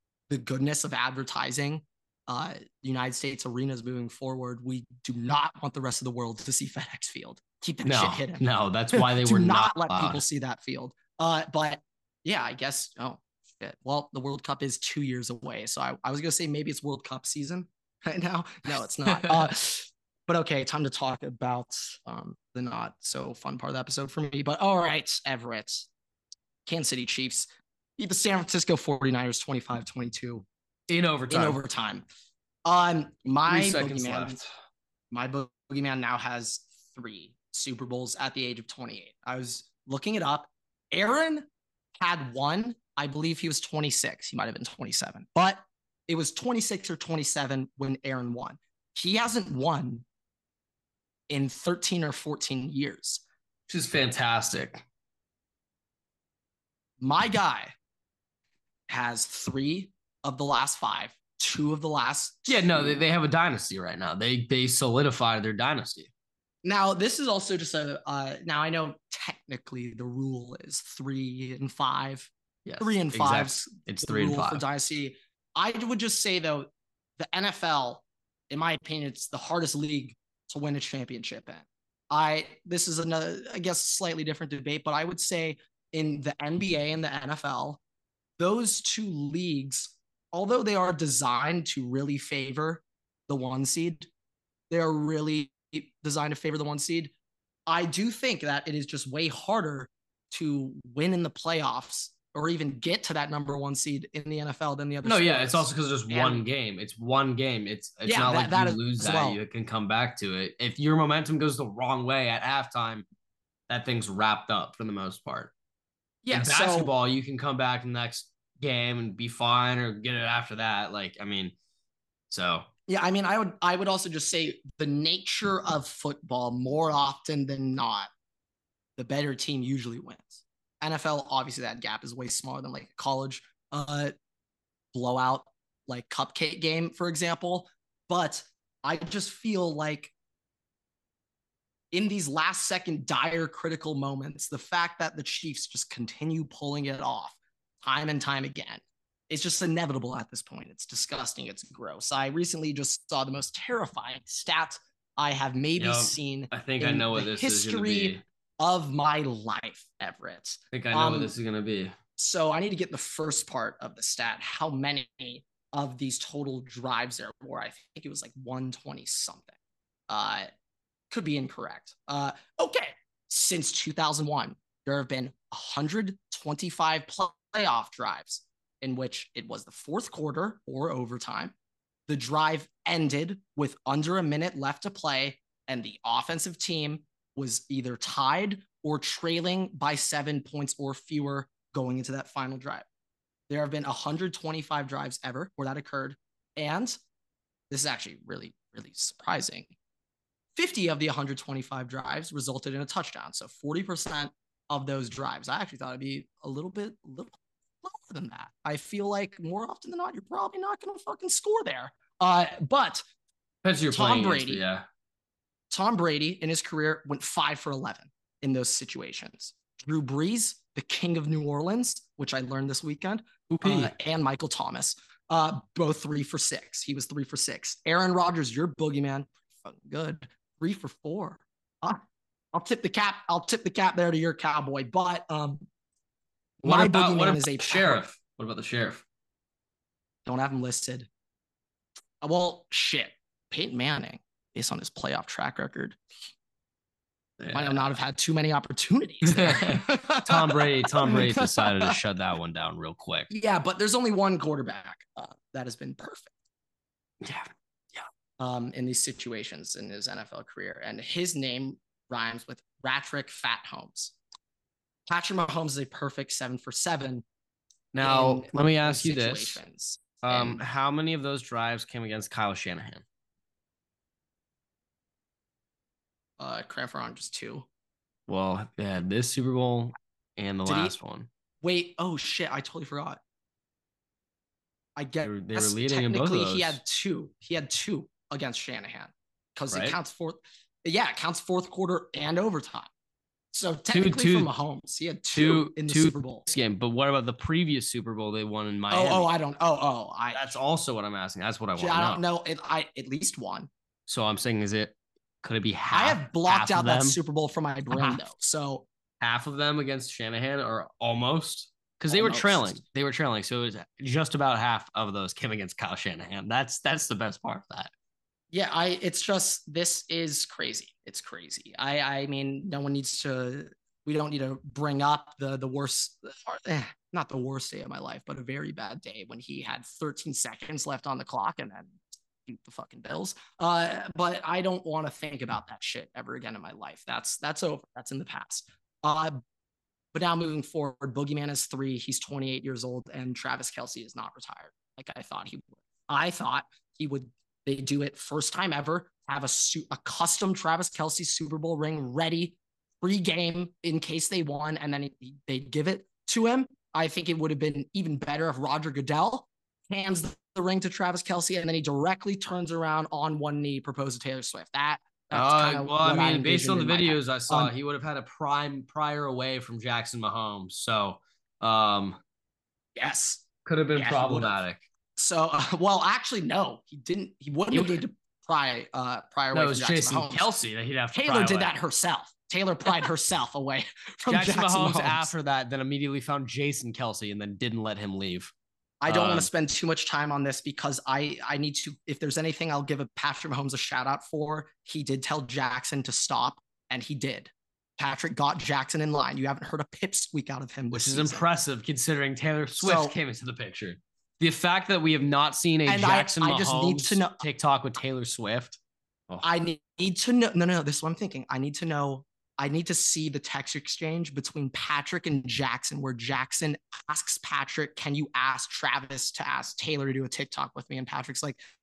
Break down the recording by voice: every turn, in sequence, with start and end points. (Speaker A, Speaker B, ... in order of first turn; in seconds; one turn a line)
Speaker A: 0.3-25.9
Speaker B: 7.8-10.2
Speaker B: 19.1-19.5
Speaker A: 26.6-30.4
Speaker B: 30.9-31.6
Speaker A: 31.3-32.0
Speaker A: 32.6-34.4
Speaker B: 33.5-34.5
Speaker A: 35.1-41.5
Speaker A: 42.0-50.0
Speaker A: 51.3-53.2
Speaker B: 53.7-54.8
Speaker A: 57.0-57.7
Speaker A: 58.9-63.0
Speaker B: 62.5-66.1
Speaker A: 66.6-87.8
Speaker B: 72.6-74.6
Speaker A: 88.4-94.1
Speaker A: 94.7-97.1
Speaker A: 97.7-106.4
Speaker B: 105.0-113.0
Speaker A: 108.0-109.4
Speaker B: 113.7-115.5
Speaker A: 116.2-116.9
Speaker B: 116.3-121.5
Speaker B: 122.3-122.7
Speaker A: 122.9-128.1
Speaker A: 129.0-134.1
Speaker A: 134.9-140.1
Speaker A: 141.9-161.3
Speaker B: 155.8-158.2
Speaker B: 160.7-161.9
Speaker A: 162.2-169.6
Speaker A: 170.1-170.5
Speaker A: 171.1-181.5
Speaker A: 182.1-192.8
Speaker A: 193.5-196.9
Speaker A: 197.7-199.7
Speaker A: 200.5-213.0
Speaker B: 213.6-214.8
Speaker A: 213.9-214.6
Speaker A: 215.7-232.0
Speaker B: 223.5-223.9
Speaker A: 232.5-235.7
Speaker B: 236.6-239.0
Speaker A: 236.6-238.1
Speaker A: 240.2-241.1
Speaker A: 242.2-246.0
Speaker B: 247.4-247.8
Speaker A: 247.5-251.9
Speaker B: 249.2-253.3
Speaker A: 253.3-256.3
Speaker B: 257.2-258.1
Speaker A: 258.4-264.1
Speaker A: 265.1-267.2
Speaker B: 267.9-269.6
Speaker A: 268.0-270.6
Speaker B: 270.2-273.0
Speaker A: 276.4-277.6
Speaker B: 278.3-281.3
Speaker A: 280.6-280.9
Speaker A: 281.6-283.2
Speaker A: 284.9-292.9
Speaker B: 285.2-286.8
Speaker B: 289.7-290.0
Speaker A: 293.5-296.4
Speaker B: 293.9-294.5
Speaker B: 295.3-299.3
Speaker A: 298.9-300.5
Speaker B: 300.3-302.2
Speaker A: 301.8-303.7
Speaker B: 304.1-307.2
Speaker A: 305.9-308.9
Speaker B: 307.9-308.2
Speaker B: 309.2-317.9
Speaker A: 312.1-312.8
Speaker A: 318.5-339.4
Speaker A: 340.1-367.7
Speaker B: 365.3-372.2
Speaker A: 373.0-373.4
Speaker B: 373.6-374.8
Speaker A: 373.9-374.5
Speaker A: 375.1-380.5
Speaker B: 377.7-378.0
Speaker B: 379.5-381.7
Speaker A: 381.1-385.3
Speaker B: 384.3-388.5
Speaker A: 389.0-401.4
Speaker B: 389.1-389.5
Speaker B: 400.9-409.4
Speaker A: 402.8-403.1
Speaker A: 405.9-407.4
Speaker A: 409.4-421.6